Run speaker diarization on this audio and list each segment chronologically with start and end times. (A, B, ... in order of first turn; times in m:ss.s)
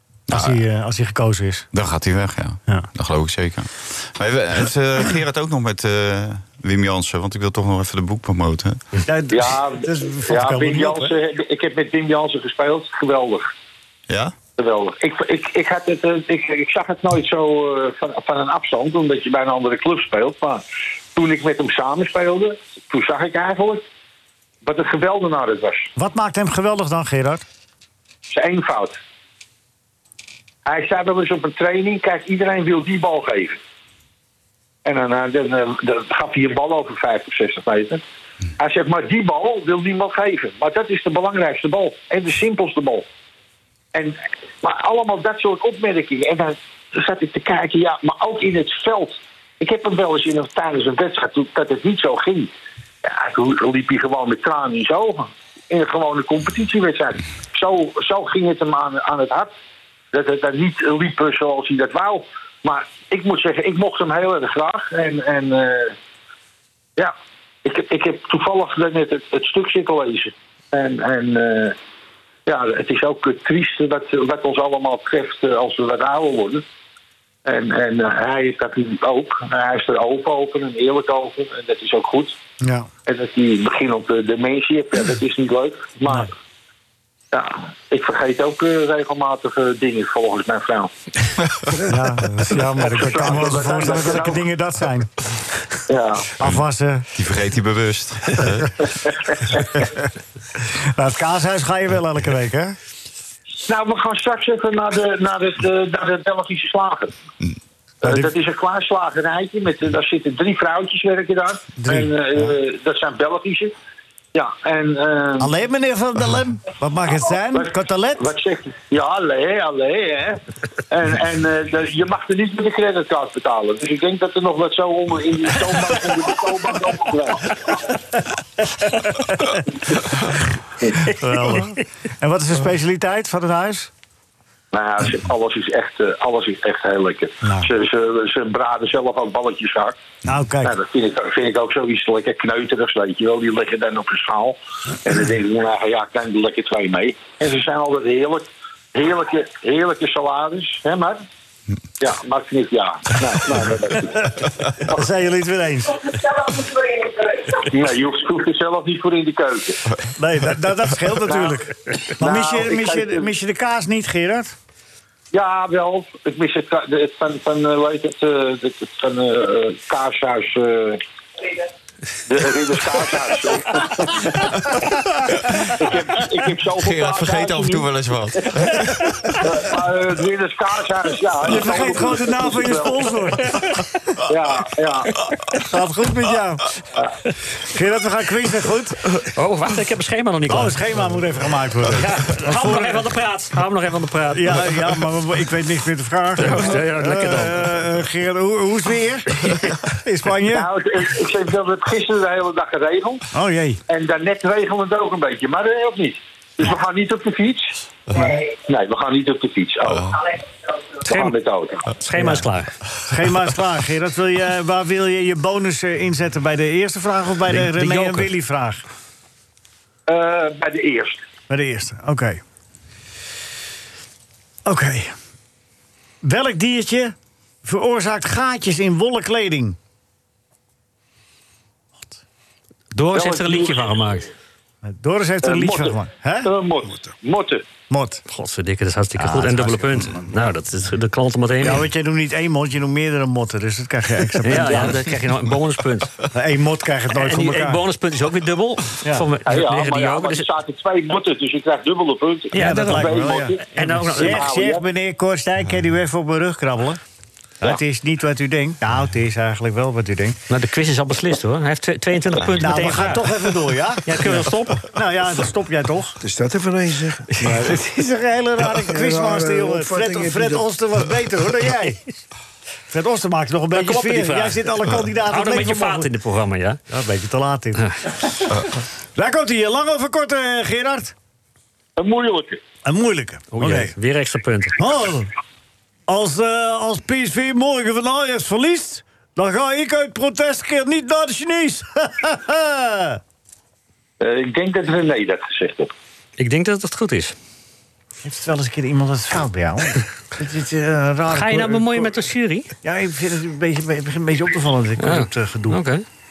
0:00.3-0:00.6 A
0:00.3-0:01.7 B
0:01.7-0:08.8 A
0:09.0-0:11.1 B
0:09.3-0:13.5 C
0:14.1-0:14.3 A
0:14.6-0:20.6 C
0:21.1-0:23.8 C
0:24.6-0:25.9 C
0:26.0-0:27.4 B
0:28.3-0:29.0 C
0:30.6-0:33.6 C
0:34.8-0:38.0 C
0:38.6-0:43.1 C
0:43.9-0:52.5 C
0:53.0-0:59.5 C
1:00.1-1:06.0 C
1:07.6-1:11.8 C
1:12.4-1:16.6 C
1:17.4-1:22.4 C
1:22.6-1:22.9 B
1:23.0-1:26.3 C
1:27.3-1:30.9 C
1:31.9-1:35.2 B
1:32.6-1:34.4 C
1:35.9-1:36.3 C
1:36.4-1:37.1 B
1:37.1-1:38.7 A
1:39.0-1:39.6 C
1:40.9-1:42.8 B
1:43.6-1:47.1 C
1:48.0-1:53.7 C
1:51.8-1:52.5 B
1:54.3-1:55.5 C
1:55.4-1:58.2 B
1:57.5-2:07.9 C
2:08.7-2:10.4 B
2:11.0-2:13.9 B
2:14.7-2:20.0 C
2:17.4-2:17.7 B
2:20.2-2:20.8 B
2:20.6-2:31.2 C
2:32.0-2:35.0 C
2:34.8-2:36.2 B
2:36.9-2:39.8 C
2:40.1-2:44.5 B
2:41.2-2:41.6 C
2:42.2-2:43.3 C
2:45.3-2:51.0 C
2:52.2-2:54.5 C
2:55.7-2:57.9 C
2:56.8-2:59.1 A
2:59.4-3:03.1 C
3:01.5-3:03.6 B
3:04.3-3:05.1 C
3:05.6-3:06.7 B
3:07.6-3:09.2 B
3:09.3-3:10.8 D
3:10.5-3:13.1 B
3:11.9-3:15.1 D
3:14.3-3:20.7 B
3:16.4-3:17.8 D
3:20.4-3:23.2 C
3:23.3-3:23.8 B
3:23.9-3:30.4 C
3:31.0-3:31.9 C
3:31.0-3:31.3 D
3:31.9-3:32.7 D
3:32.2-3:32.4 B
3:33.0-3:38.8 B
3:37.5-3:38.3 D
3:40.1-3:41.2 C
3:41.5-3:42.4 B
3:44.6-3:45.2 B
3:46.2-3:49.8 B
3:52.9-3:54.3 D
3:53.1-3:54.0 C
3:54.8-3:56.5 B
3:55.4-3:57.6 C
3:57.9-3:58.2 B
3:58.3-4:01.9 D
3:59.2-4:00.3 B
4:01.6-4:05.0 B
4:04.4-4:06.1 D
4:04.6-4:04.9 C
4:06.3-4:07.8 B
4:07.1-4:10.5 D
4:09.4-4:14.8 C
4:12.5-4:14.6 D
4:12.5-4:17.0 B
4:17.6-4:20.4 B
4:20.5-4:24.9 D
4:22.6-4:26.2 B
4:26.2-4:27.7 E
4:27.4-4:32.0 B
4:28.9-4:30.7 E
4:32.9-4:36.1 B
4:33.7-4:34.7 D
4:35.2-4:36.8 D
4:36.9-4:41.1 B
4:42.0-4:42.6 C
4:42.8-4:43.9 B
4:43.5-4:44.8 D
4:44.8-4:45.3 B
4:46.1-4:53.2 B
4:54.2-4:55.9 C
4:56.4-4:57.4 D
4:58.2-5:02.2 B
5:01.3-5:02.7 D
5:02.8-5:05.8 B
5:05.0-5:06.0 D